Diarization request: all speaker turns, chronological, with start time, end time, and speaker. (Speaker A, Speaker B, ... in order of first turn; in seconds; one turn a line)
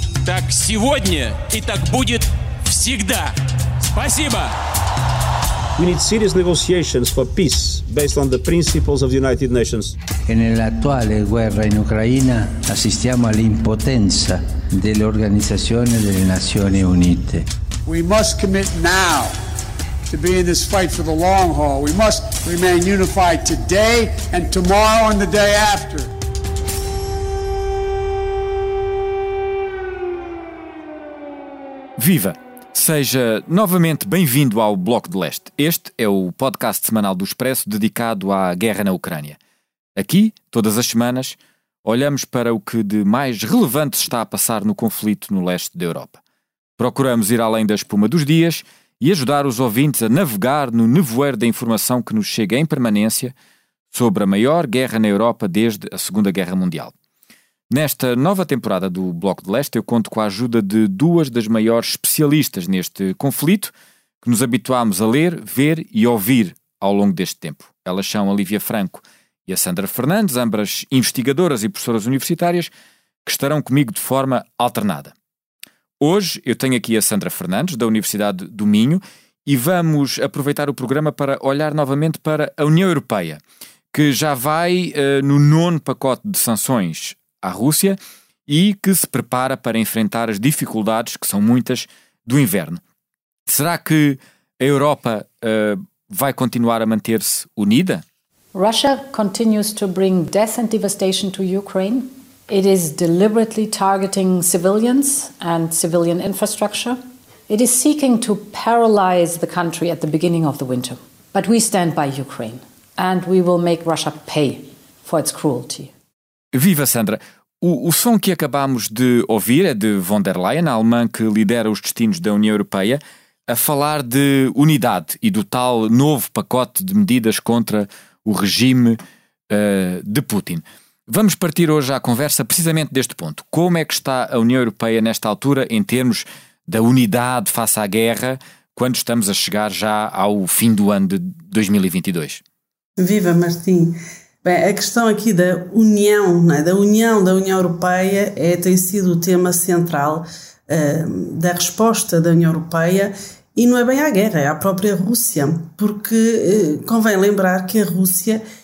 Speaker A: 0.2-3.4
Speaker A: 3.9-4.5
Speaker B: 5.8-10.0
Speaker C: 10.3-17.4
Speaker D: 17.9-19.3
Speaker D: 20.1-26.1
Speaker E: 32.0-39.4
Speaker E: 40.0-46.2
Speaker E: 46.8-53.3
Speaker E: 53.9-56.9
Speaker E: 57.7-72.7
Speaker E: 73.2-75.1
Speaker E: 76.0-83.4
Speaker E: 83.9-92.8
Speaker E: 93.5-98.0
Speaker F: 98.5-115.9
Speaker E: 116.5-142.4
Speaker G: 143.0-158.4